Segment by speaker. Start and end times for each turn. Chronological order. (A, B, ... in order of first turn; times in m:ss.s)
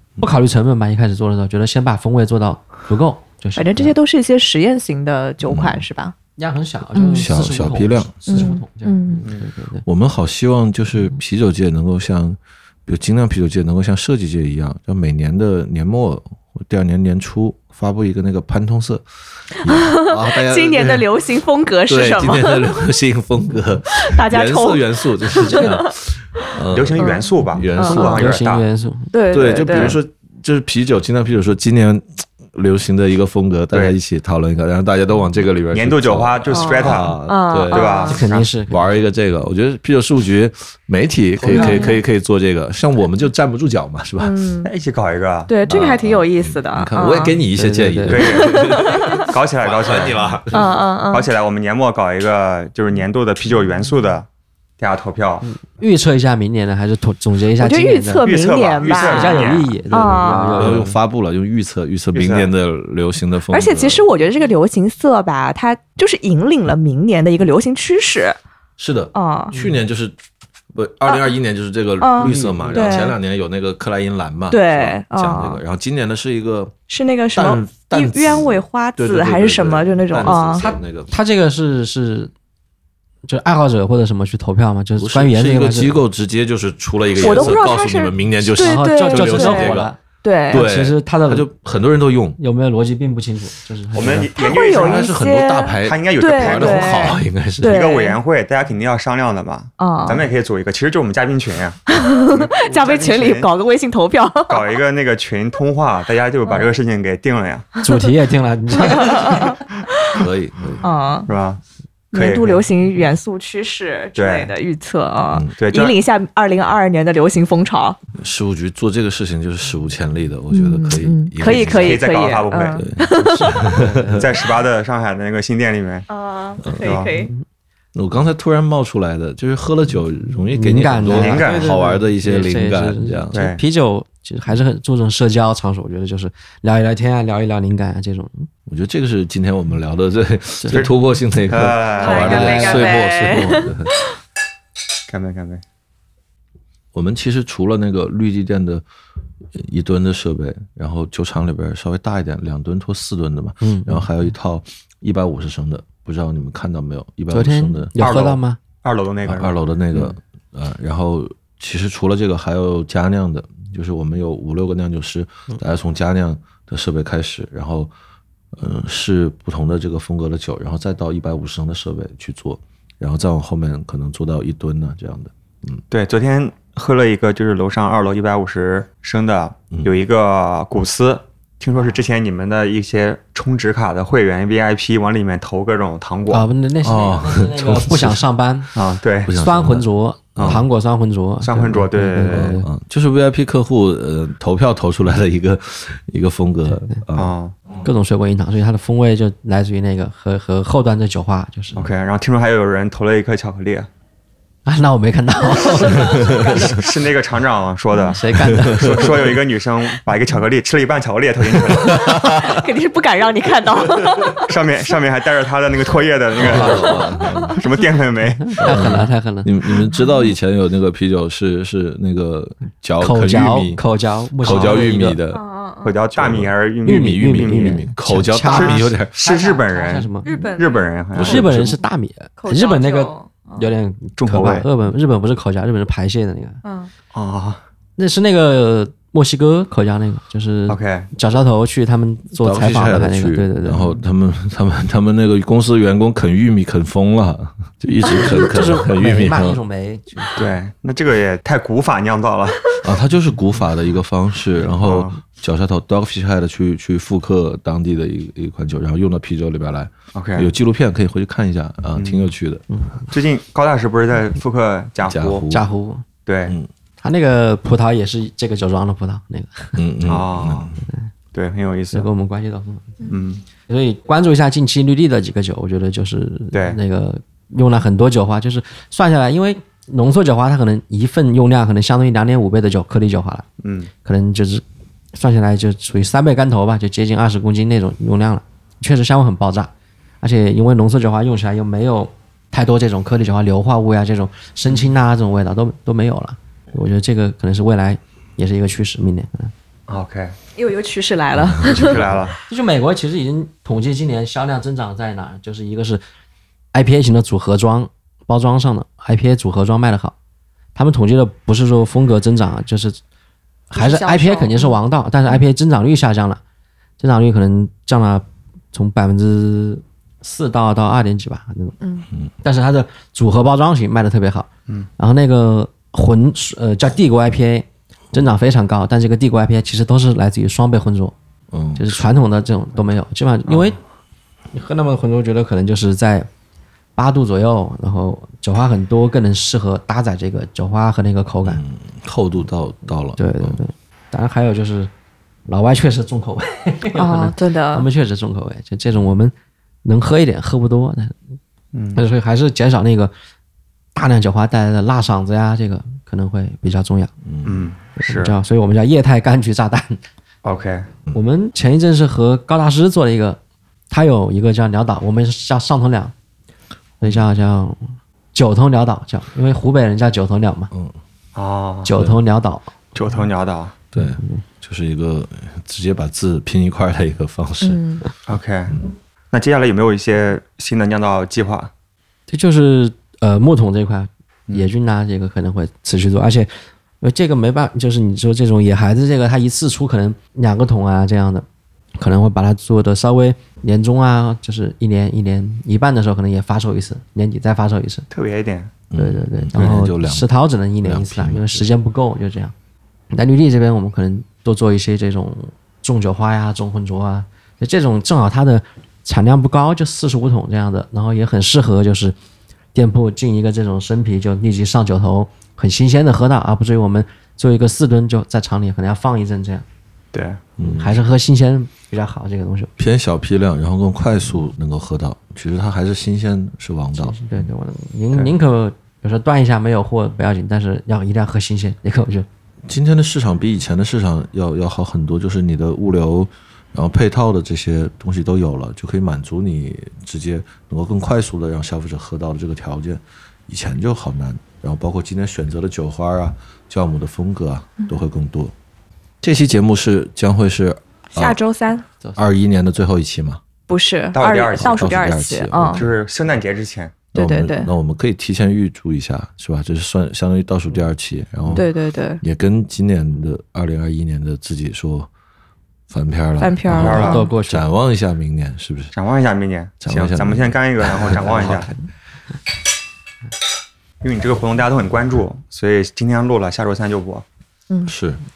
0:00.2-0:03.9 A
0:03.6-0:06.1 B
0:05.4-0:05.8 C
0:06.4-0:09.8 A
0:06.9-0:07.3 B
0:07.1-0:08.5 C
0:08.3-0:09.2 B
0:09.8-0:21.1 C
0:19.7-0:22.7 B
0:21.9-0:28.4 C
0:24.0-0:25.9 B
0:26.7-0:28.6 D
0:27.0-0:28.1 B
0:27.8-0:29.1 A
0:29.1-0:30.0 B
0:29.3-0:44.5 C
0:29.7-0:30.0 D
0:35.7-0:38.5 D
0:36.5-0:38.2 B
0:38.1-0:38.9 A
0:41.5-0:41.9 A
0:41.5-0:42.0 B
0:44.2-0:44.7 B
0:44.6-0:45.5 D
0:45.5-0:47.4 B
0:45.7-0:50.8 C
0:47.5-0:48.3 A
0:48.1-0:50.4 D
0:48.4-0:49.3 B
0:50.5-0:51.3 B
0:51.1-0:54.3 D
0:54.8-0:55.5 D
0:55.4-0:58.3 A
0:57.6-1:00.7 B
0:58.2-0:59.7 D
0:59.0-1:01.0 A
0:59.9-1:04.0 C
1:02.1-1:02.5 D
1:03.5-1:08.4 B
1:08.8-1:10.2 C
1:09.1-1:09.5 B
1:09.5-1:09.8 A
1:10.7-1:16.7 C
1:12.0-1:13.2 B
1:12.2-1:13.1 A
1:14.5-1:15.6 B
1:16.9-1:20.7 B
1:17.3-1:21.1 C
1:20.2-1:22.3 A
1:23.2-1:26.0 A
1:25.0-1:29.9 C
1:27.2-1:30.7 B
1:28.6-1:30.0 A
1:30.5-1:32.4 C
1:30.5-1:31.5 A
1:32.4-1:34.3 A
1:33.9-1:35.2 D
1:34.4-1:38.2 B
1:34.6-1:37.8 C
1:35.8-1:43.5 D
1:39.8-1:40.2 B
1:41.9-1:44.8 B
1:44.5-1:47.8 D
1:47.8-1:49.6 A
1:48.8-1:50.2 B
1:50.1-1:50.8 C
1:50.8-1:51.3 B
1:51.3-1:51.6 D
1:52.1-1:52.6 D
1:52.1-1:58.0 B
1:54.2-1:54.5 D
1:55.6-1:56.0 D
1:58.1-2:02.1 C
2:00.5-2:03.6 B
2:01.4-2:02.8 D
2:02.8-2:04.4 C
2:03.7-2:06.1 D
2:06.1-2:07.3 B
2:06.6-2:07.0 C
2:06.8-2:07.2 D
2:07.2-2:07.4 A
2:07.9-2:13.4 C
2:10.5-2:18.5 A
2:11.1-2:11.7 D
2:13.3-2:13.6 D
2:18.7-2:23.9 C
2:21.5-2:22.7 D
2:22.0-2:24.0 B
2:22.1-2:23.0 A
2:25.1-2:25.6 D
2:26.9-2:28.8 C
2:29.5-2:37.9 C
2:33.6-2:34.1 A
2:37.3-2:38.6 A
2:38.0-2:40.0 D
2:39.2-2:47.9 C
2:48.5-2:55.8 C
2:55.9-3:06.5 D
3:06.3-3:08.8 A
3:06.8-3:08.2 C
3:08.7-3:09.3 D
3:09.2-3:10.6 C
3:09.3-3:12.7 A
3:11.4-3:12.6 D
3:12.3-3:17.9 C
3:17.1-3:17.5 D
3:17.8-3:21.8 A
3:21.7-3:23.9 D
3:24.6-3:26.8 A
3:25.9-3:26.6 C
3:26.4-3:32.2 D
3:28.1-3:29.3 A
3:28.4-3:29.1 C
3:31.7-3:32.6 C
3:31.9-3:34.5 B
3:34.5-3:38.8 D
3:36.4-3:37.6 C
3:36.7-3:37.0 B
3:38.5-3:39.5 A
3:38.6-3:43.8 C
3:43.0-3:45.2 A
3:44.4-3:45.4 C
3:44.4-3:44.8 D
3:45.3-3:46.0 B
3:45.8-3:47.8 D
3:46.1-3:49.1 C
3:46.8-3:50.5 A
3:48.5-3:51.5 D
3:50.2-3:51.4 B
3:51.1-3:51.8 C
3:51.2-3:56.6 A
3:52.4-3:53.7 B
3:54.2-3:54.7 D
3:56.6-3:56.9 B
3:57.1-3:57.6 D
3:58.0-4:03.9 A
4:00.7-4:01.1 D
4:02.4-4:09.6 C
4:08.0-4:10.4 A
4:10.4-4:12.8 D
4:12.8-4:22.6 C
4:14.5-4:15.2 D
4:20.1-4:20.5 D
4:21.9-4:22.3 D
4:22.7-4:23.0 A
4:23.1-4:25.4 D
4:25.0-4:25.6 C
4:25.5-4:26.0 A
4:26.2-4:26.6 D
4:27.0-4:29.8 A
4:29.8-4:30.8 C
4:30.0-4:30.7 D
4:31.3-4:32.1 D
4:31.9-4:33.0 A
4:33.1-4:33.4 D
4:33.7-4:43.4 A
4:36.5-4:36.8 D
4:43.6-4:43.9 D
4:44.0-4:59.5 A
4:59.9-5:00.3 D
5:00.6-5:02.0 B
5:01.6-5:02.1 C
5:01.6-5:02.4 D
5:02.5-5:06.0 A
5:06.7-5:10.1 A
5:10.7-5:13.0 A
5:13.7-5:16.4 A
5:13.7-5:15.4 B
5:17.0-5:21.8 A
5:21.8-5:22.1 B
5:22.4-5:31.1 A
5:31.5-5:32.1 C
5:31.8-5:33.8 A
5:34.5-5:36.3 A
5:37.0-5:41.6 A
5:41.4-5:43.6 C
5:43.2-5:44.9 A
5:45.5-5:51.2 A
5:46.9-5:47.9 B
5:51.7-5:52.0 D
5:51.9-5:53.1 A
5:53.9-5:57.1 A
5:57.2-5:57.7 C
5:57.4-5:58.4 D
5:58.0-6:00.0 A
6:00.4-6:00.9 D
6:01.1-6:03.4 A
6:03.9-6:06.1 A
6:07.0-6:10.7 A
6:10.7-6:11.0 C
6:11.3-6:12.0 D
6:11.8-6:12.7 A
6:12.9-6:13.8 D
6:13.9-6:17.8 C
6:14.0-6:14.4 A
6:17.6-6:18.0 B
6:18.2-6:21.7 D
6:22.3-6:26.5 A
6:27.0-6:31.4 A
6:32.0-6:38.1 A
6:38.1-6:38.7 D
6:38.9-6:41.6 C
6:39.0-6:42.5 A
6:43.1-6:52.1 A
6:52.7-6:59.6 A
7:00.1-7:00.4 D
7:00.6-7:01.0 C
7:00.6-7:02.7 A
7:02.8-7:07.2 C
7:07.0-7:12.3 A
7:12.6-7:28.5 C
7:29.2-7:31.4 C
7:31.1-7:31.8 B
7:32.1-7:33.4 C
7:33.7-7:35.8 B
7:34.1-7:34.9 D
7:34.6-7:35.9 C
7:35.6-7:37.1 D
7:37.1-7:37.7 B
7:37.1-7:41.7 C
7:41.5-7:42.2 B
7:42.2-7:45.1 C
7:45.9-7:48.9 C
7:46.4-7:47.3 B
7:46.7-7:47.3 D
7:46.8-7:47.6 A
7:48.9-7:51.7 D
7:49.8-7:51.7 C
7:54.0-7:57.2 D
7:57.7-7:57.9 B
7:57.8-7:58.2 C